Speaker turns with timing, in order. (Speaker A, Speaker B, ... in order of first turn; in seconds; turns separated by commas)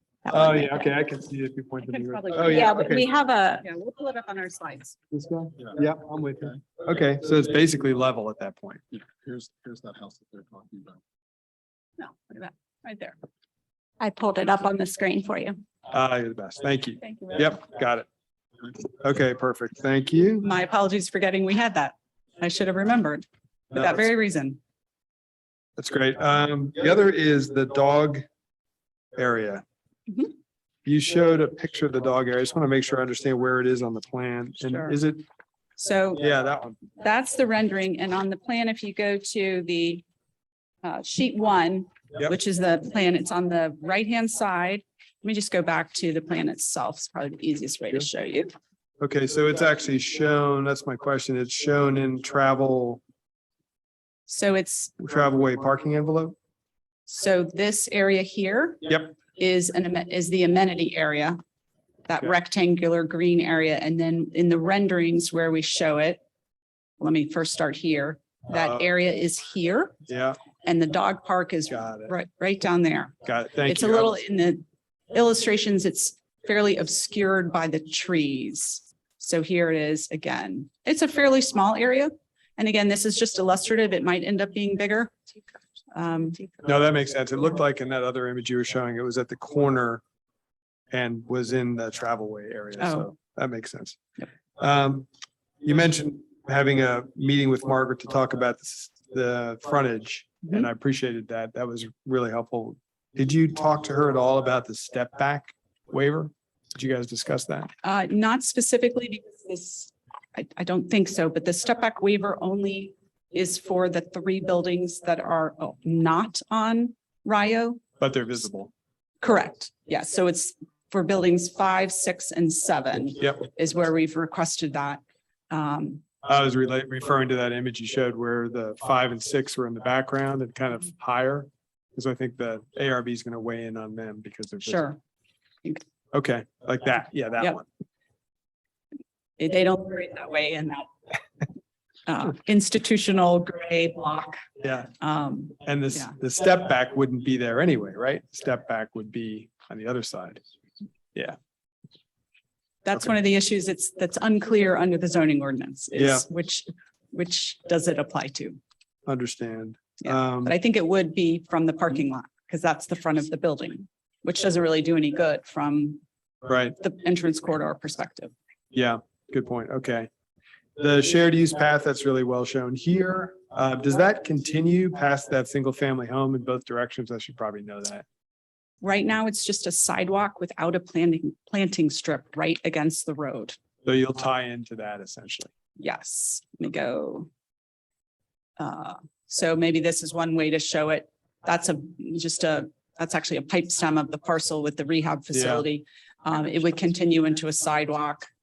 Speaker A: 0.2-0.8, Speaker B: 0.3-3.1, Speaker C: 1.9-3.0, Speaker A: 2.5-3.6, Speaker C: 3.6-5.0, Speaker B: 5.1-8.8, Speaker D: 9.0-11.0, Speaker C: 12.0-13.2, Speaker A: 14.0-15.6, Speaker B: 15.9-18.1, Speaker C: 17.0-17.6, Speaker B: 18.9-20.5, Speaker C: 20.4-24.6, Speaker B: 25.8-28.2, Speaker B: 29.2-29.6, Speaker B: 30.9-35.2, Speaker C: 34.6-35.0, Speaker C: 35.8-36.2, Speaker B: 36.2-36.8, Speaker C: 37.0-40.0, Speaker C: 40.8-48.5, Speaker B: 49.0-53.0, Speaker C: 54.3-54.9, Speaker B: 55.0-56.4, Speaker C: 57.1-61.4, Speaker C: 62.1-66.2, Speaker C: 67.0-70.0, Speaker B: 68.5-68.8, Speaker B: 70.1-70.4, Speaker C: 70.6-85.1, Speaker B: 71.7-72.1, Speaker B: 73.2-74.2, Speaker C: 85.9-86.4, Speaker B: 86.6-90.0, Speaker B: 90.9-94.0, Speaker C: 92.8-93.1, Speaker B: 94.6-95.1, Speaker B: 95.6-107.7, Speaker C: 107.8-117.8, Speaker B: 118.0-118.7, Speaker C: 119.2-126.0, Speaker B: 126.2-134.9, Speaker C: 134.7-135.0, Speaker B: 136.1-137.7, Speaker C: 139.4-140.9, Speaker C: 142.1-144.4, Speaker B: 144.6-144.9, Speaker C: 145.0-146.2, Speaker B: 145.6-150.4, Speaker C: 152.8-158.6, Speaker B: 155.9-156.3, Speaker B: 159.1-160.6, Speaker C: 160.0-166.0, Speaker B: 166.5-166.8, Speaker C: 166.8-168.3, Speaker B: 168.7-170.1, Speaker B: 170.8-178.0, Speaker C: 178.8-183.6, Speaker B: 183.8-185.5, Speaker C: 185.8-187.3, Speaker C: 188.6-198.3, Speaker B: 195.3-195.7